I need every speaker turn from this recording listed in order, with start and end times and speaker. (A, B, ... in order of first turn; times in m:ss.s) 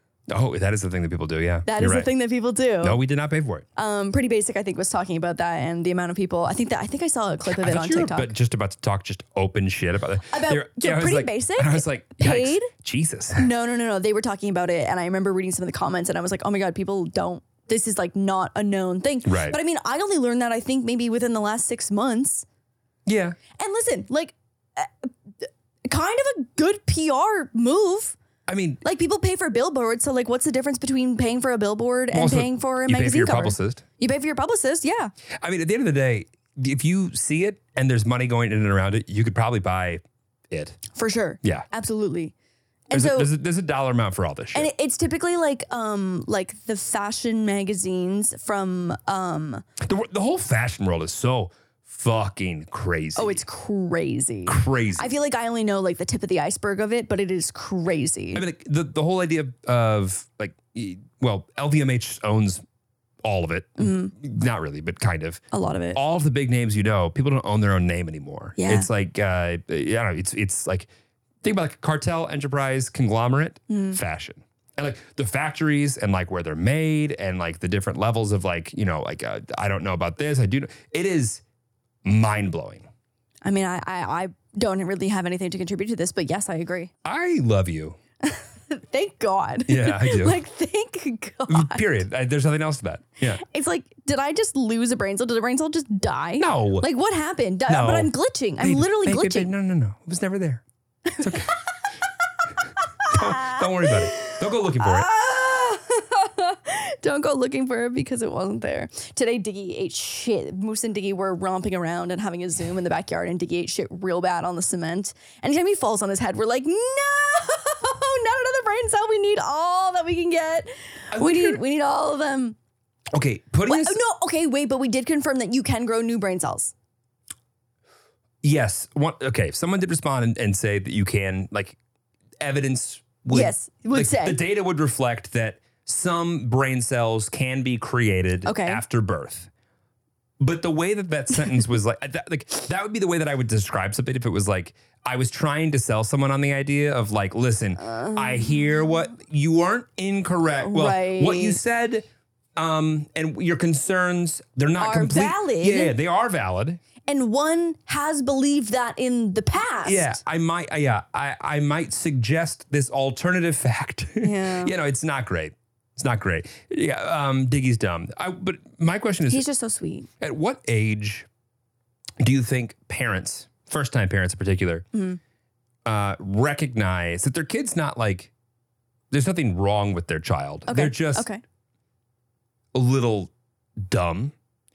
0:00.3-0:02.1 A
0:01.7-0:03.0 B
0:02.8-0:03.7 A
0:03.8-0:08.3 B
0:07.5-0:13.5 A
0:10.3-0:12.7 B
0:13.4-0:22.4 B
0:19.3-0:19.6 A
0:23.1-0:23.4 A
0:23.6-0:28.2 B
0:28.5-0:28.8 A
0:28.8-0:35.1 B
0:32.1-0:33.8 A
0:35.4-0:40.8 A
0:41.0-0:42.3 B
0:42.9-0:43.3 B
0:42.9-0:44.7 A
0:44.5-0:49.6 B
0:49.8-0:53.4 A
0:53.2-0:58.4 B
0:54.5-0:55.1 A
0:58.4-1:02.6 A
1:03.2-1:05.4 A
1:03.8-1:04.1 B
1:05.5-1:06.0 B
1:06.0-1:10.9 A
1:08.6-1:08.9 B
1:11.4-1:21.4 A
1:13.7-1:14.0 B
1:22.0-1:22.8 A
1:23.4-1:26.9 B
1:27.0-1:28.0 A
1:28.2-1:31.8 B
1:29.7-1:30.4 A
1:31.5-1:33.4 A
1:33.4-1:39.5 B
1:36.4-1:36.9 A
1:37.7-1:40.6 A
1:41.2-1:41.5 A
1:43.1-2:02.6 B
1:43.1-1:45.1 A
2:01.1-2:01.6 A
2:03.1-2:04.0 A
2:03.7-2:06.7 B
2:08.4-2:11.8 A
2:12.4-2:19.5 A
2:13.3-2:14.4 B
2:18.4-2:18.8 B
2:20.4-2:36.8 A
2:27.8-2:28.8 B
2:30.6-2:31.6 B
2:34.8-2:35.9 B
2:37.1-2:40.2 B
2:39.8-2:49.4 A
2:44.2-2:44.7 B
2:49.3-2:50.1 B
2:50.2-2:51.3 A
2:52.2-2:54.8 A
2:54.9-2:55.2 B
2:55.8-2:58.3 A
2:59.1-3:01.3 A
3:00.7-3:01.4 B
3:02.7-3:03.3 A
3:03.8-3:04.3 A